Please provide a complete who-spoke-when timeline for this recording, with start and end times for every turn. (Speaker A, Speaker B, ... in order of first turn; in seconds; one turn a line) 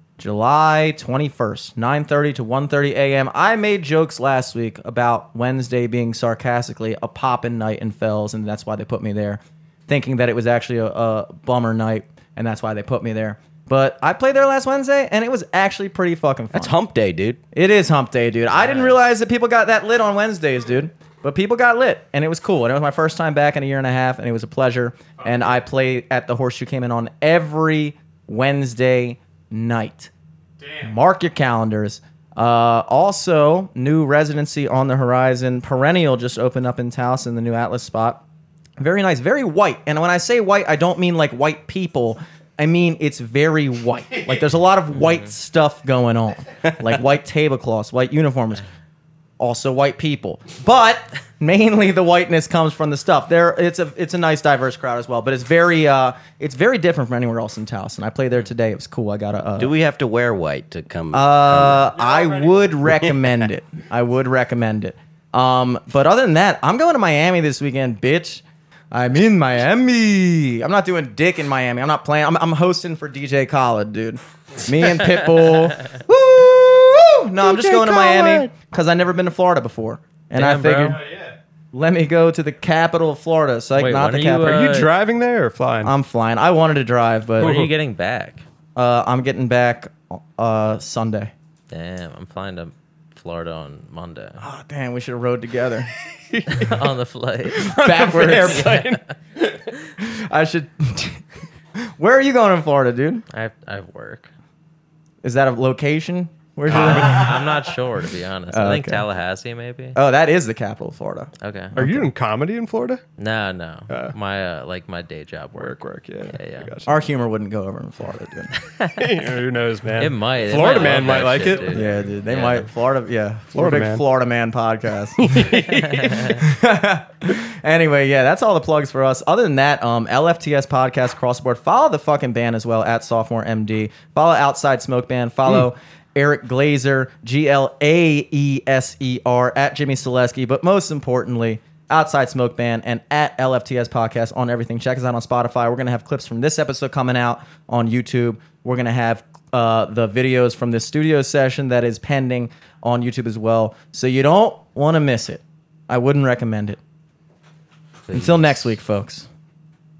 Speaker A: 0.2-16.8
Speaker B: 16.5-17.4
Speaker A: 17.5-30.1
Speaker C: 25.2-25.6
Speaker C: 30.6-30.9
Speaker A: 30.8-38.2
Speaker A: 38.8-48.6
Speaker D: 44.9-45.3
Speaker A: 49.4-59.7
Speaker B: 59.6-61.8
Speaker A: 61.1-81.0
Speaker C: 61.7-63.0
Speaker D: 75.0-75.9
Speaker B: 77.4-78.5
Speaker D: 80.3-81.0
Speaker C: 80.8-81.3
Speaker A: 81.7-84.7
Speaker D: 83.7-85.0
Speaker C: 84.4-85.9
Speaker A: 85.8-87.6
Speaker D: 87.4-88.4
Speaker C: 87.4-87.7
Speaker A: 88.7-91.3
Speaker D: 91.7-94.4
Speaker A: 94.4-95.9
Speaker C: 96.3-96.7
Speaker D: 96.5-99.1
Speaker C: 97.6-99.6
Speaker A: 97.8-98.7
Speaker A: 100.0-101.2
Speaker A: 101.8-103.2
Speaker D: 103.3-104.3
Speaker A: 105.2-107.4
Speaker D: 106.7-110.0
Speaker C: 106.8-107.3
Speaker A: 108.5-109.0
Speaker A: 109.9-112.1
Speaker D: 111.4-111.8
Speaker C: 111.8-113.0
Speaker D: 113.2-116.8
Speaker C: 113.9-114.2
Speaker C: 115.5-116.9
Speaker A: 116.9-118.5
Speaker D: 118.7-119.0
Speaker C: 118.9-122.0
Speaker D: 120.0-122.7
Speaker A: 121.7-125.5
Speaker C: 123.5-124.0
Speaker C: 125.2-126.4
Speaker D: 125.8-126.4
Speaker A: 126.3-156.8
Speaker D: 158.1-158.7
Speaker A: 158.1-159.3